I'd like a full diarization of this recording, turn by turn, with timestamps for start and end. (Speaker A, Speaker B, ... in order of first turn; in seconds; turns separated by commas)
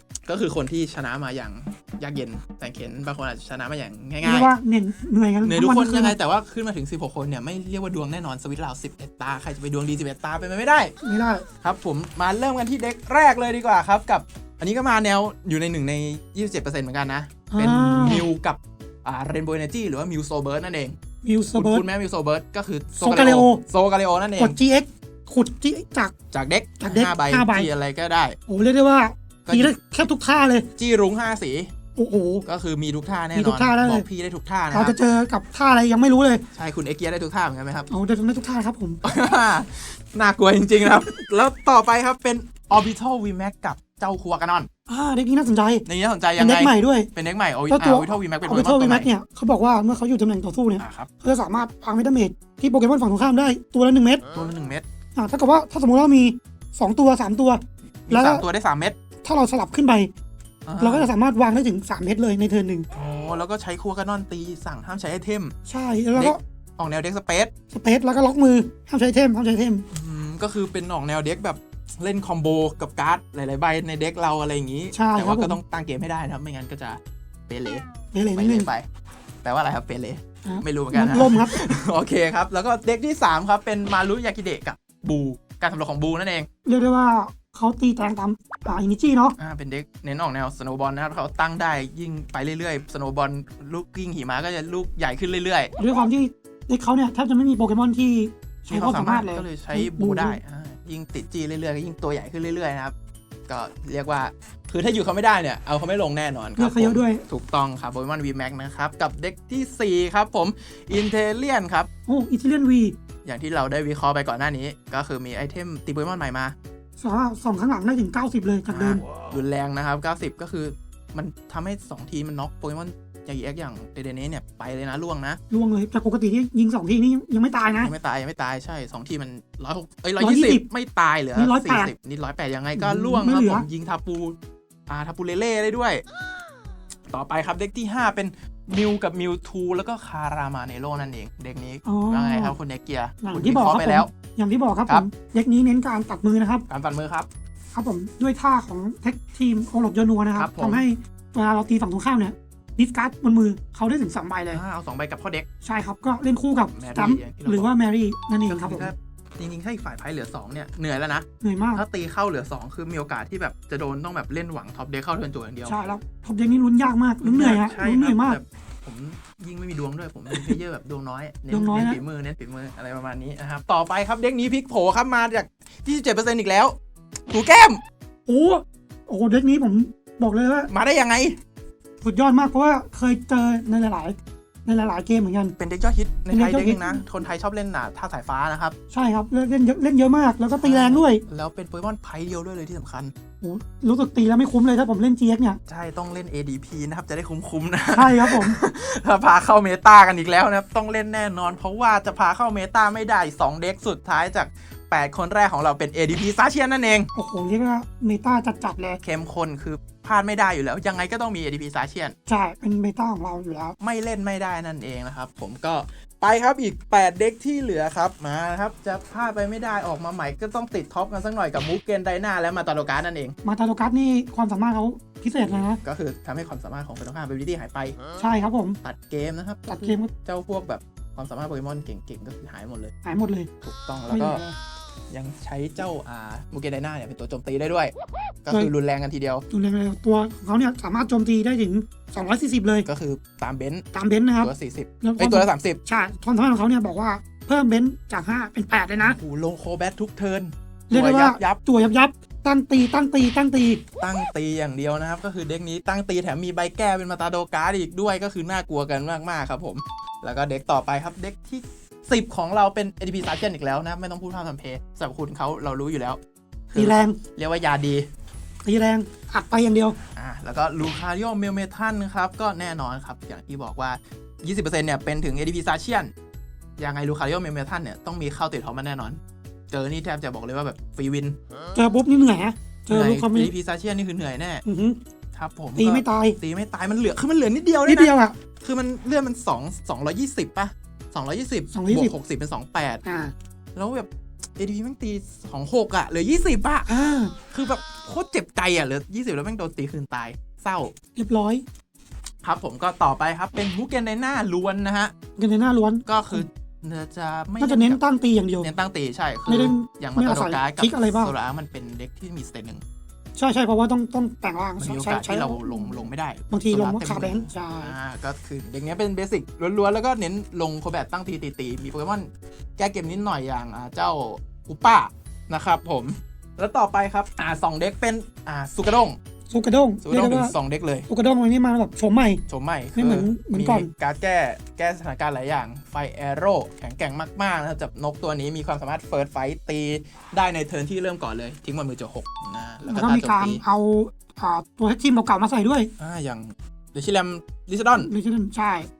Speaker A: 0.3-4.5, Speaker B: 4.2-6.2, Speaker A: 5.4-10.9, Speaker B: 11.0-11.4, Speaker A: 11.6-20.9, Speaker B: 17.5-18.2, Speaker B: 21.2-21.8, Speaker A: 21.6-24.6, Speaker B: 23.0-23.6, Speaker B: 24.4-26.1, Speaker A: 26.3-28.4, Speaker B: 26.8-27.7, Speaker B: 28.5-30.7, Speaker A: 29.5-29.7, Speaker A: 30.8-31.7, Speaker B: 31.9-32.4, Speaker A: 32.5-35.0, Speaker B: 33.4-34.0, Speaker B: 34.7-36.4, Speaker A: 36.5-37.9, Speaker B: 37.9-39.0, Speaker A: 39.0-44.7, Speaker B: 44.9-45.9, Speaker A: 45.9-49.1, Speaker B: 46.4-47.1, Speaker B: 47.7-54.2, Speaker A: 50.8-51.1, Speaker A: 54.3-54.8, Speaker B: 55.1-58.4, Speaker A: 58.1-59.0, Speaker B: 59.2-60.1, Speaker A: 60.6-61.1, Speaker B: 60.8-62.9, Speaker A: 62.9-65.5, Speaker B: 65.7-66.4, Speaker A: 66.1-67.5, Speaker B: 67.7-69.8, Speaker A: 69.9-78.8, Speaker B: 74.9-75.6, Speaker B: 78.1-78.7, Speaker A: 79.4-86.5, Speaker B: 80.4-81.6, Speaker B: 86.6-89.3, Speaker A: 89.4-95.7, Speaker B: 95.8-100.4, Speaker A: 98.7-102.9, Speaker A: 103.5-111.9, Speaker B: 106.6-107.2, Speaker B: 112.1-113.0, Speaker A: 113.2-116.5, Speaker B: 117.0-119.0, Speaker A: 118.7-125.4, Speaker B: 125.5-127.9, Speaker A: 127.7-134.3, Speaker B: 130.2-130.6, Speaker B: 131.3-131.9, Speaker B: 132.7-133.7, Speaker A: 134.9-136.0, Speaker A: 137.1-144.1, Speaker B: 141.8-142.5, Speaker B: 143.2-146.6, Speaker A: 146.7-147.3, Speaker B: 147.7-154.6, Speaker A: 150.3-150.8, Speaker A: 154.5-155.4, Speaker B: 155.6-158.9, Speaker A: 156.7-157.7, Speaker A: 158.5-165.9, Speaker B: 161.4-161.8, Speaker B: 165.7-168.4, Speaker A: 167.2-176.8, Speaker B: 171.5-172.0, Speaker A: 177.3-177.8, Speaker B: 178.3-180.7, Speaker A: 180.7-181.4, Speaker B: 182.0-185.5, Speaker A: 185.6-188.7, Speaker B: 186.3-187.0, Speaker B: 188.9-191.2, Speaker A: 190.5-193.1, Speaker B: 193.4-195.6, Speaker A: 195.7-207.1, Speaker B: 197.9-198.6, Speaker B: 207.1-209.0, Speaker A: 209.0-212.1, Speaker B: 212.3-213.8, Speaker A: 213.8-223.3, Speaker B: 223.4-225.8, Speaker A: 225.5-228.0, Speaker B: 228.2-228.8, Speaker A: 228.8-232.9, Speaker B: 229.7-230.1, Speaker B: 233.0-233.5, Speaker A: 233.6-234.4, Speaker B: 234.1-234.5, Speaker A: 235.1-237.9, Speaker A: 238.4-239.4, Speaker B: 239.5-242.9, Speaker A: 242.8-243.8, Speaker B: 243.9-249.2, Speaker A: 244.4-245.8, Speaker A: 249.0-251.6, Speaker B: 250.9-253.8, Speaker A: 254.0-266.2, Speaker A: 266.7-268.1, Speaker B: 266.8-267.2, Speaker B: 268.6-269.9, Speaker A: 270.1-276.1, Speaker A: 276.8-279.2, Speaker A: 279.7-281.4, Speaker B: 281.7-283.5, Speaker A: 282.9-284.6, Speaker B: 284.6-285.0, Speaker A: 285.3-293.0, Speaker B: 285.8-286.4, Speaker B: 287.9-288.4, Speaker B: 291.7-292.1, Speaker B: 293.0-293.3, Speaker A: 293.8-296.9, Speaker B: 296.9-297.3, Speaker A: 297.5-300.9, Speaker B: 301.1-301.6, Speaker A: 302.4-305.1, Speaker B: 305.4-306.4, Speaker A: 306.1-308.0, Speaker B: 307.6-308.7, Speaker A: 308.6-312.8, Speaker B: 309.5-311.3, Speaker B: 313.4-315.9, Speaker A: 314.8-329.2, Speaker B: 316.5-317.9, Speaker B: 329.5-330.5, Speaker A: 330.0-331.1, Speaker B: 331.1-332.4, Speaker A: 332.5-343.6, Speaker B: 332.9-333.9, Speaker B: 342.9-345.9, Speaker A: 346.0-348.1, Speaker B: 348.0-348.9